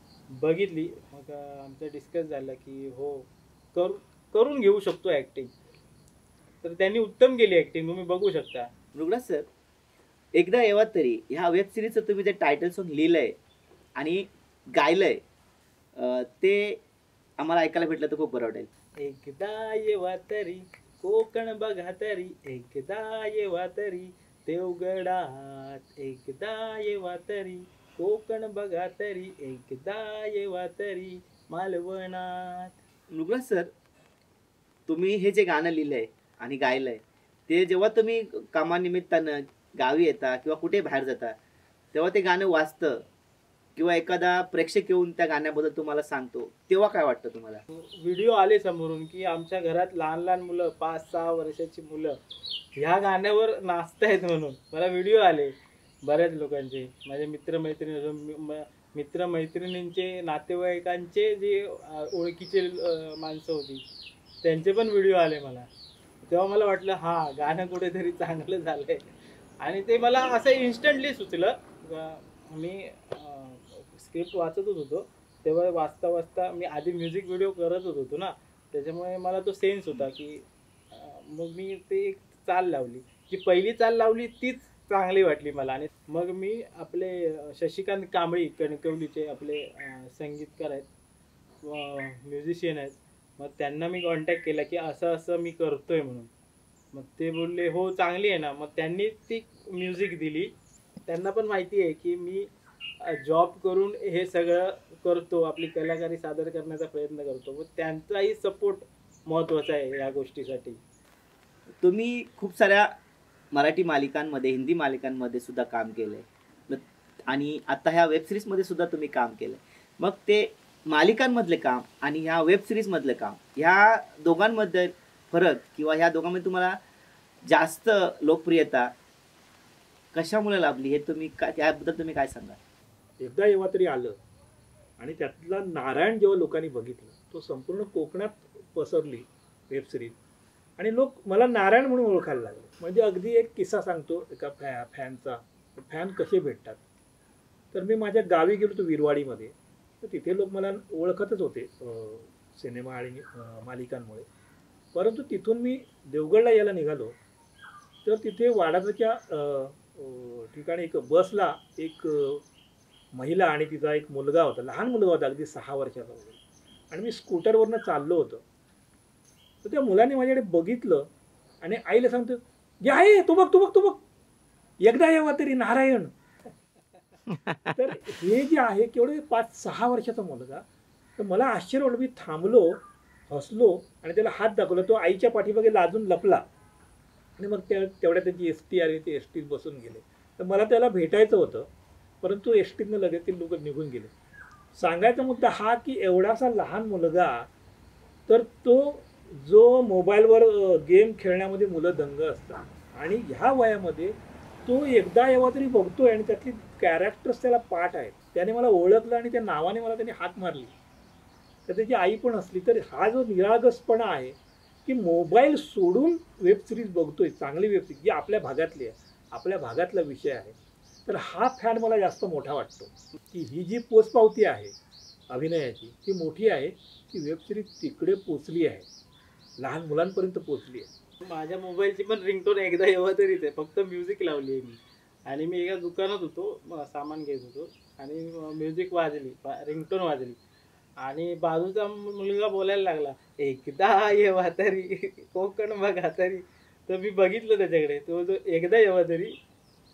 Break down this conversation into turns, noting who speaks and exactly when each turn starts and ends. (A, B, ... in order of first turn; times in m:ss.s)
0:00.3-0:05.5 A
0:06.6-0:08.7 A
0:09.0-0:09.5 B
0:10.4-0:13.4 B
0:14.0-0:15.2 B
0:16.0-0:16.8 B
0:17.4-0:18.7 B
0:19.0-0:32.7 A
0:33.1-0:33.7 B
0:34.9-0:41.4 B
0:41.9-0:43.0 B
0:43.8-0:47.6 B
0:47.7-0:52.2 A
0:52.8-0:55.5 A
0:56.0-1:03.8 A
1:04.4-1:05.7 A
1:06.2-1:09.0 A
1:09.6-1:30.9 A
1:31.6-1:36.3 A
1:36.9-1:40.5 A
1:41.1-1:42.5 A
1:43.0-1:50.8 A
1:51.8-1:52.9 B
1:53.5-2:06.8 B
2:07.5-2:08.9 B
2:10.1-2:12.6 B
2:13.2-2:14.2 C
2:15.0-2:20.2 C
2:20.8-2:26.8 C
2:27.7-2:34.3 C
2:34.9-2:37.2 C
2:38.0-2:42.4 C
2:43.2-2:46.4 C
2:46.9-2:48.4 C
2:49.6-2:51.1 C
2:51.6-2:54.0 C
2:54.8-2:56.1 C
2:57.3-2:57.8 B
2:57.8-3:00.6 C
3:01.2-3:06.4 C
3:07.4-3:11.7 C
3:12.2-3:14.1 C
3:14.8-3:17.5 C
3:18.3-3:24.1 C
3:24.6-3:30.7 C
3:31.7-3:44.7 C
3:45.3-3:48.9 C
3:49.6-3:50.9 C
3:51.2-4:00.4 A
4:01.0-4:09.4 A